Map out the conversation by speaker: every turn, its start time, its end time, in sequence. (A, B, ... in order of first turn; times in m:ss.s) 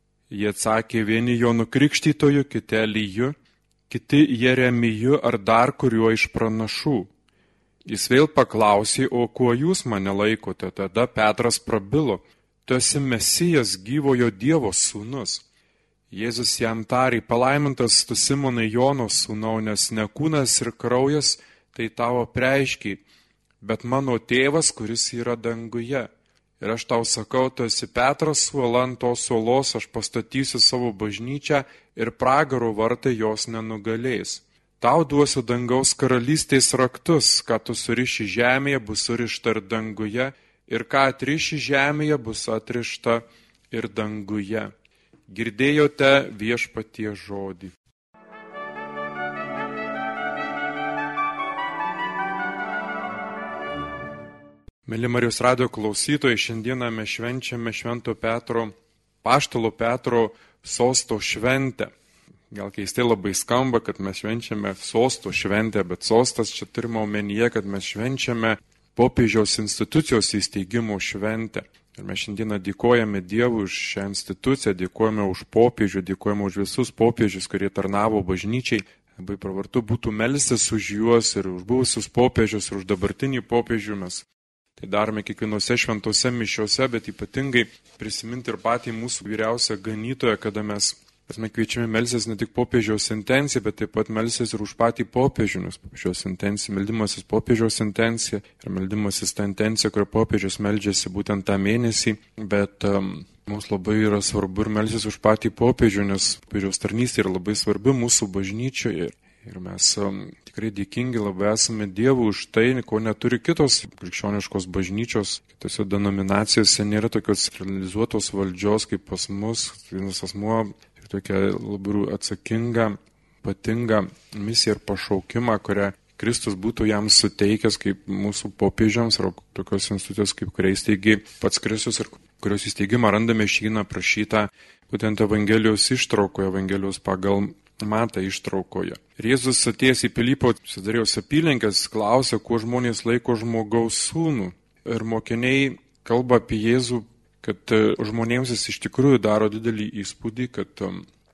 0:00.3-0:03.3 A
0:03.9-0:07.1 A
0:07.9-0:15.4 A
0:16.1-0:23.0 A
0:23.6-0:26.1 A
0:26.6-0:44.7 A
0:45.3-0:47.7 A
0:54.8-0:58.7 A
0:59.2-1:01.9 A
1:02.5-1:24.2 A
1:24.8-2:31.0 A